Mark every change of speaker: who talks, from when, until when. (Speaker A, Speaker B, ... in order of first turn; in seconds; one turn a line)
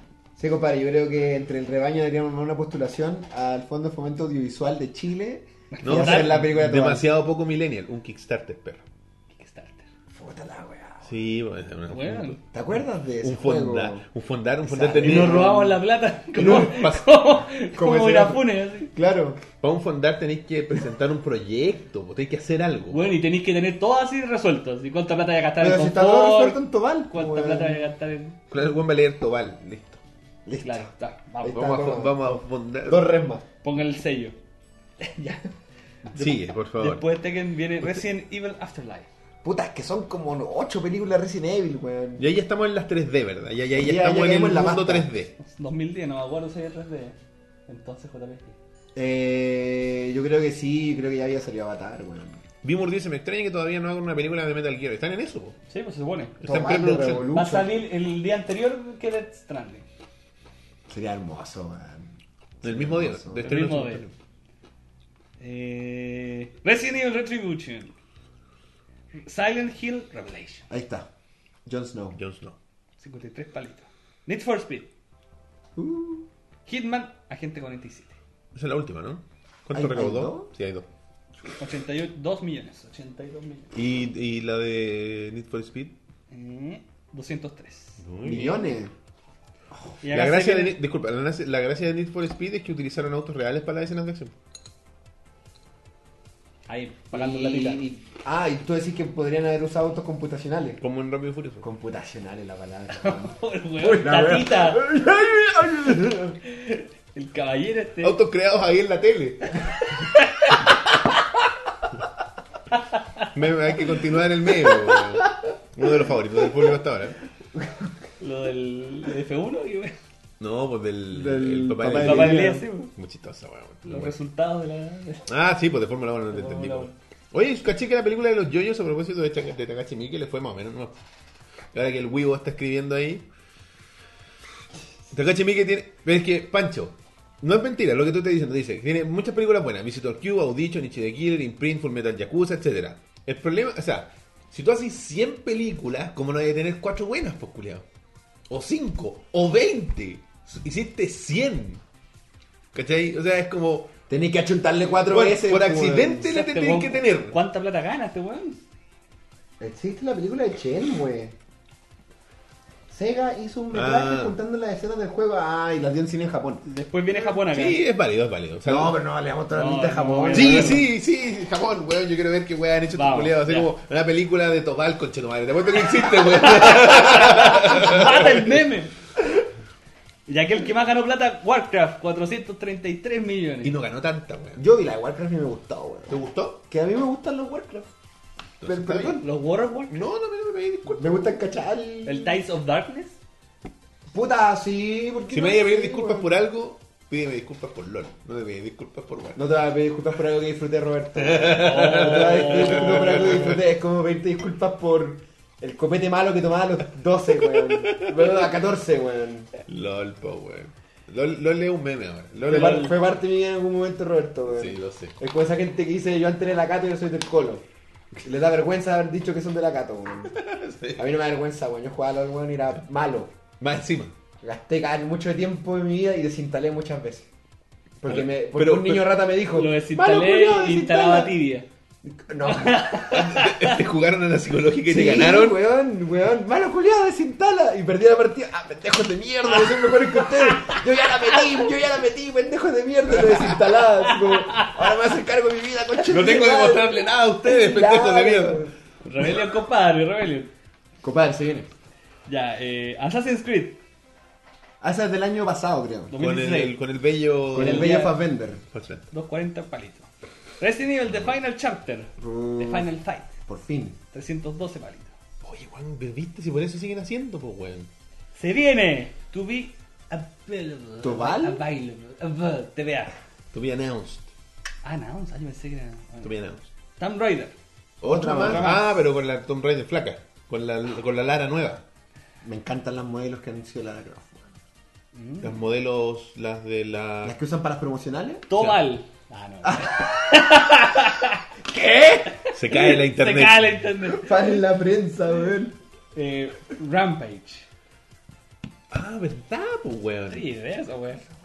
Speaker A: 0.4-7.1
Speaker B: 5.7-6.4
Speaker C: 5.8-8.9
Speaker B: 9.3-9.9
Speaker A: 10.1-11.1
Speaker C: 11.0-12.5
Speaker B: 11.9-12.4
Speaker A: 12.5-14.1
Speaker C: 13.2-15.7
Speaker A: 14.7-15.8
Speaker B: 14.9-18.9
Speaker C: 16.4-17.1
Speaker A: 16.4-16.8
Speaker A: 17.8-19.4
Speaker C: 19.6-23.1
Speaker B: 22.9-28.4
Speaker A: 25.6-27.9
Speaker C: 28.5-30.0
Speaker A: 30.5-33.4
Speaker B: 30.6-31.8
Speaker C: 31.5-33.1
Speaker B: 33.6-34.4
Speaker B: 35.0-35.5
Speaker B: 36.1-39.1
Speaker C: 36.1-37.1
Speaker A: 39.4-42.3
Speaker C: 42.2-45.4
Speaker A: 43.8-45.1
Speaker B: 45.4-48.6
Speaker A: 49.0-52.4
Speaker C: 52.6-55.6
Speaker B: 55.7-56.4
Speaker C: 56.4-57.3
Speaker A: 56.4-57.7
Speaker B: 57.3-59.9
Speaker A: 60.9-63.6
Speaker C: 62.6-64.1
Speaker B: 63.4-64.0
Speaker B: 65.4-67.9
Speaker B: 69.2-70.7
Speaker A: 70.7-71.1
Speaker A: 71.7-72.2
Speaker C: 72.2-72.6
Speaker B: 73.0-74.9
Speaker A: 75.8-76.3
Speaker B: 76.7-78.2
Speaker C: 78.5-80.9
Speaker A: 79.7-80.5
Speaker B: 81.6-83.7
Speaker C: 83.7-86.0
Speaker B: 86.3-88.0
Speaker C: 88.0-88.8
Speaker A: 88.2-88.9
Speaker B: 90.0-90.8
Speaker C: 90.1-94.3
Speaker B: 96.7-97.8
Speaker A: 97.1-100.8
Speaker C: 100.8-101.7
Speaker A: 101.6-106.4
Speaker B: 103.0-104.9
Speaker B: 106.4-108.2
Speaker C: 108.0-110.5
Speaker B: 109.7-110.7
Speaker B: 112.9-113.3
Speaker C: 113.3-117.2
Speaker A: 114.7-115.3
Speaker A: 117.5-117.9
Speaker B: 118.2-120.0
Speaker C: 120.4-124.2
Speaker A: 121.1-122.7
Speaker B: 122.0-122.9
Speaker B: 123.9-125.3
Speaker C: 125.3-131.0
Speaker B: 126.3-126.9
Speaker C: 131.7-133.2
Speaker C: 135.1-147.9
Speaker C: 148.5-151.8
Speaker C: 152.7-153.9
Speaker A: 154.1-156.3
Speaker C: 155.1-157.4
Speaker B: 156.3-158.6
Speaker A: 159.6-161.4
Speaker A: 162.9-166.7
Speaker C: 163.7-164.4
Speaker B: 166.7-167.8
Speaker C: 167.3-169.0
Speaker A: 168.7-170.9
Speaker B: 169.5-170.8
Speaker C: 170.3-178.6
Speaker B: 172.9-173.7
Speaker B: 176.3-178.9
Speaker B: 180.3-183.8
Speaker C: 183.6-184.7
Speaker A: 184.6-187.9
Speaker C: 186.1-186.6
Speaker C: 188.6-189.2
Speaker A: 188.7-189.3
Speaker B: 189.2-189.9
Speaker C: 189.9-191.3
Speaker A: 191.0-192.4
Speaker B: 192.1-193.2
Speaker A: 194.1-196.3
Speaker C: 195.3-199.4
Speaker A: 199.3-209.5
Speaker C: 201.2-203.6
Speaker B: 201.5-203.0
Speaker C: 207.4-208.4
Speaker C: 209.7-213.0
Speaker A: 212.4-217.7
Speaker B: 212.5-212.9
Speaker C: 214.5-215.2
Speaker A: 218.2-220.3
Speaker C: 220.3-221.1
Speaker A: 221.0-223.3
Speaker C: 223.6-224.1
Speaker A: 224.4-227.3
Speaker A: 228.0-231.4
Speaker C: 228.1-229.2
Speaker B: 229.5-231.7
Speaker A: 232.0-233.1
Speaker B: 232.4-233.8
Speaker C: 233.1-235.6
Speaker A: 234.9-248.8
Speaker B: 239.7-241.5
Speaker C: 243.2-243.6
Speaker B: 244.1-244.8
Speaker C: 246.1-248.6
Speaker B: 249.0-250.5
Speaker A: 251.0-251.7
Speaker B: 252.3-253.8
Speaker A: 254.8-256.1
Speaker B: 256.1-256.8
Speaker C: 256.2-258.1
Speaker A: 257.5-258.6
Speaker B: 257.6-258.2
Speaker C: 258.7-259.1
Speaker B: 259.1-260.1
Speaker B: 260.6-263.4
Speaker C: 261.1-261.4
Speaker A: 262.2-262.9
Speaker A: 263.5-264.0
Speaker B: 264.1-265.1
Speaker C: 265.4-267.9
Speaker B: 268.4-273.1
Speaker A: 271.0-271.6
Speaker C: 273.5-274.3
Speaker B: 274.8-276.4
Speaker C: 276.2-276.7
Speaker B: 277.0-277.6
Speaker C: 278.0-281.8
Speaker A: 278.0-278.8
Speaker B: 278.3-278.9
Speaker A: 282.4-284.5
Speaker B: 285.1-285.6
Speaker C: 285.4-287.4
Speaker A: 287.2-288.5
Speaker B: 288.5-291.4
Speaker C: 288.6-288.9
Speaker A: 289.6-290.7
Speaker A: 291.6-292.4
Speaker B: 292.3-294.6
Speaker C: 292.5-293.8
Speaker A: 294.0-295.8
Speaker B: 296.1-297.7
Speaker C: 298.9-300.5
Speaker B: 300.3-301.2